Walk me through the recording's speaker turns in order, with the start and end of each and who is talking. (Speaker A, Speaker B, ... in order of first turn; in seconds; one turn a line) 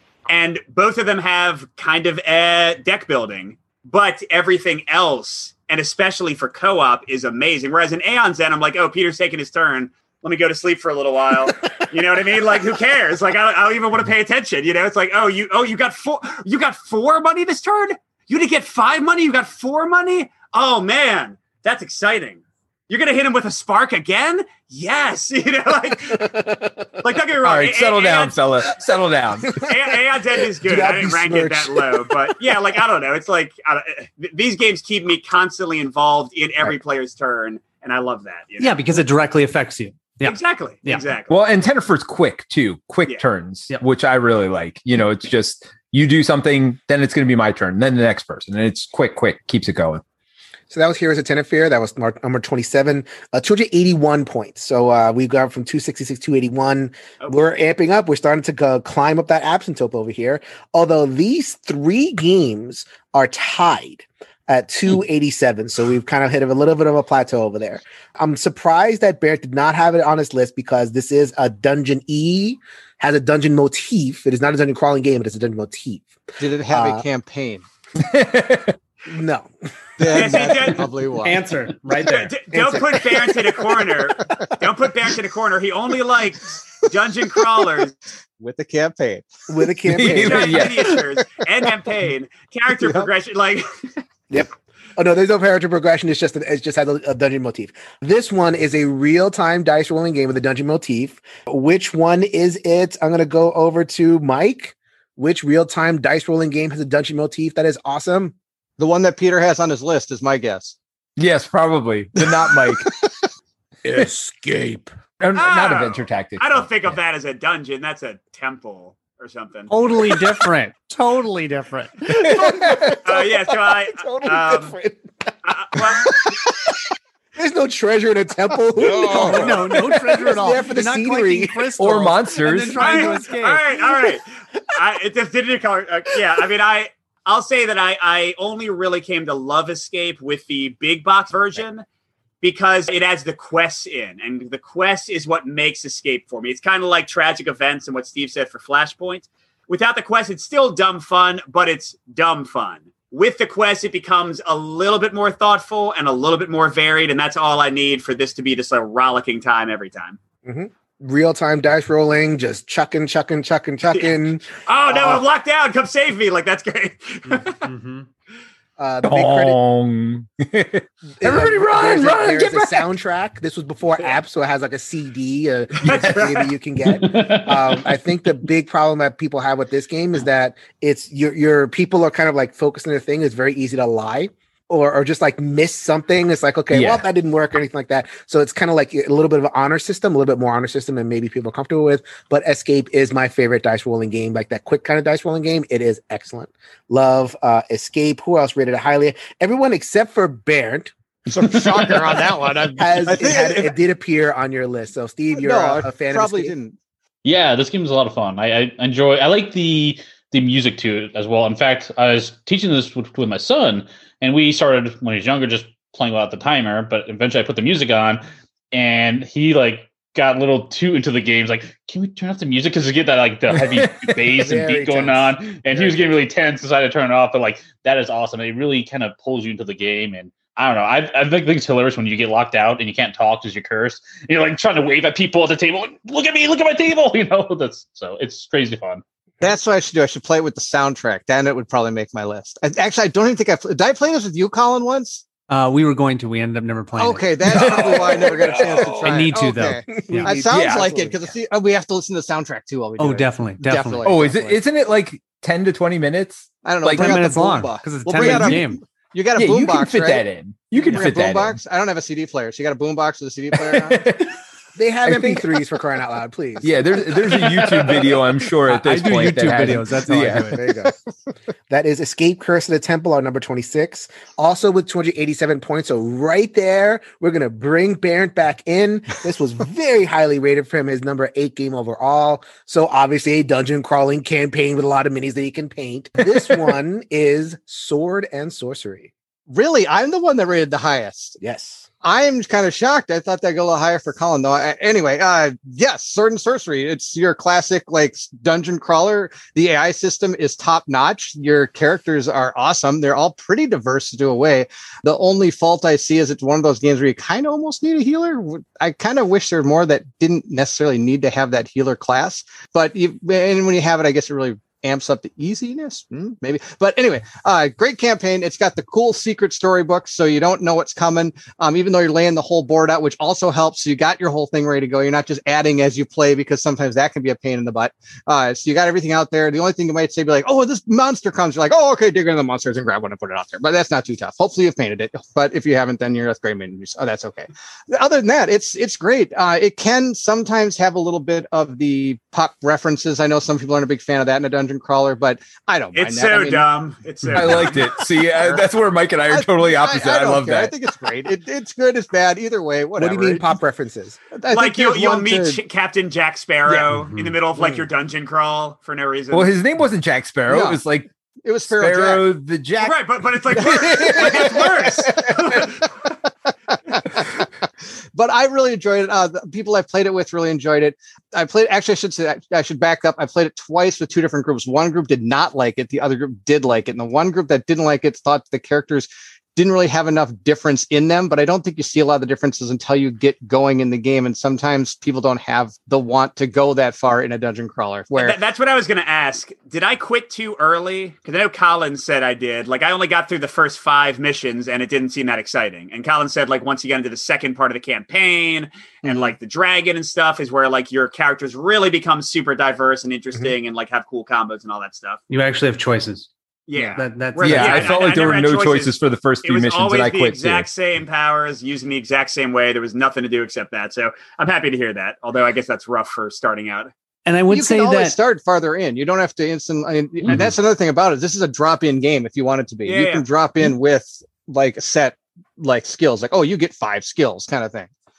Speaker A: 0.3-26.5
Speaker B: 26.3-26.9
Speaker A: 27.0-28.4
Speaker C: 27.4-29.6
Speaker A: 29.6-39.0
Speaker B: 30.6-32.2
Speaker D: 38.6-41.0
Speaker A: 40.2-41.4
Speaker C: 41.3-50.0
Speaker B: 50.7-76.2
Speaker E: 76.4-77.7
Speaker B: 76.7-77.0
Speaker C: 78.0-78.8
Speaker B: 79.1-79.5
Speaker E: 80.0-81.4
Speaker A: 80.0-80.9
Speaker D: 81.2-82.3
Speaker A: 82.0-87.9
Speaker B: 82.5-84.5
Speaker E: 88.4-89.3
Speaker B: 89.5-90.8
Speaker C: 89.9-91.0
Speaker A: 90.1-93.7
Speaker E: 92.8-93.1
Speaker B: 94.3-108.3
Speaker E: 108.8-110.8
Speaker C: 111.2-112.9
Speaker E: 112.2-113.1
Speaker B: 113.8-114.9
Speaker C: 115.2-116.5
Speaker A: 115.3-119.7
Speaker D: 119.7-122.0
Speaker B: 122.1-126.2
Speaker C: 122.1-123.0
Speaker A: 123.0-124.8
Speaker A: 125.5-126.3
Speaker B: 127.4-131.7
Speaker D: 128.8-133.7
Speaker C: 129.8-130.2
Speaker C: 131.8-133.2
Speaker A: 132.8-141.8
Speaker A: 142.4-160.2
Speaker B: 160.4-165.2
Speaker A: 163.9-167.7
Speaker D: 167.3-168.1
Speaker B: 168.8-169.6
Speaker C: 169.0-172.9
Speaker B: 171.2-200.9
Speaker A: 175.8-176.5
Speaker C: 175.9-176.2
Speaker F: 176.9-177.8
Speaker C: 186.7-187.1
Speaker E: 201.3-203.8
Speaker F: 201.5-202.0
Speaker B: 202.8-206.5
Speaker E: 205.3-206.8
Speaker F: 207.2-218.2
Speaker F: 218.7-239.0
Speaker C: 223.5-224.2
Speaker B: 224.4-226.2
Speaker E: 239.4-245.2
Speaker D: 245.5-247.9
Speaker E: 247.0-254.6
Speaker C: 247.5-249.0
Speaker B: 247.7-248.8
Speaker D: 248.8-250.3
Speaker B: 250.0-251.2
Speaker C: 250.5-250.9
Speaker D: 253.0-254.1
Speaker C: 254.0-257.2
Speaker E: 256.6-260.3
Speaker D: 256.9-258.8
Speaker C: 258.2-258.6
Speaker C: 259.4-261.6
Speaker E: 260.8-264.0
Speaker C: 263.5-264.4
Speaker B: 264.8-267.6
Speaker C: 265.0-265.6
Speaker C: 266.6-270.7
Speaker D: 268.6-270.6
Speaker B: 270.5-270.9
Speaker B: 271.7-289.1
Speaker E: 289.5-291.4
Speaker B: 291.4-291.9
Speaker E: 292.0-346.7
Speaker A: 345.9-348.0
Speaker C: 347.3-350.7
Speaker E: 347.4-347.7
Speaker E: 348.4-348.6
Speaker E: 349.3-353.5
Speaker B: 353.0-354.2
Speaker E: 354.3-355.6
Speaker A: 354.5-359.5
Speaker D: 356.9-357.4
Speaker B: 357.6-357.9
Speaker C: 359.3-361.1
Speaker E: 360.5-360.8
Speaker E: 361.4-362.3
Speaker C: 361.7-365.6
Speaker A: 362.8-365.9
Speaker E: 368.1-388.4
Speaker A: 388.1-405.2
Speaker E: 399.0-399.3
Speaker D: 405.3-408.0
Speaker A: 406.7-416.9
Speaker C: 407.4-410.7
Speaker D: 417.3-418.1
Speaker E: 417.5-427.9
Speaker A: 422.9-423.2